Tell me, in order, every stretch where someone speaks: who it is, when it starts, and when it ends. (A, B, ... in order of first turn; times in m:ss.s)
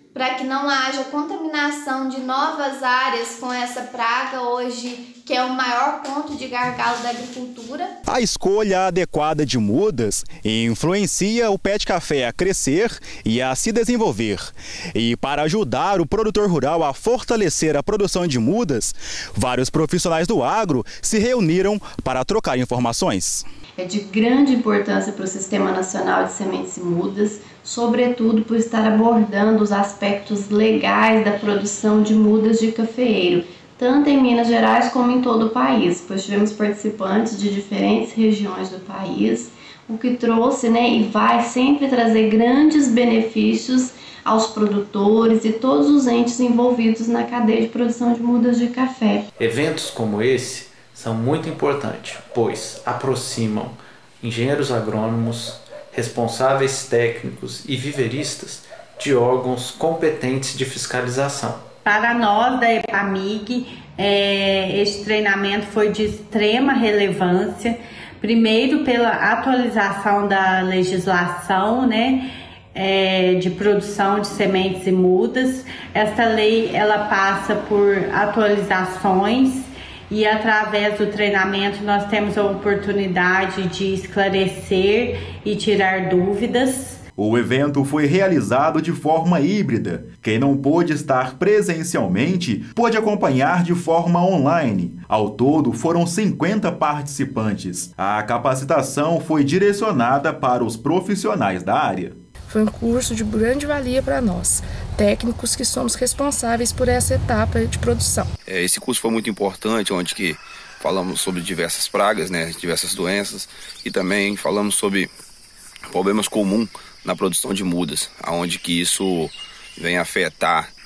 0:00.1-0:07.9 A
0:08.1-0:23.4 B
0:23.8-0:49.3 C
0:49.4-1:01.6 D
1:01.8-1:27.0 E
1:27.2-1:42.2 B
1:42.5-1:48.3 F
1:48.5-1:55.1 G
1:55.9-2:00.7 G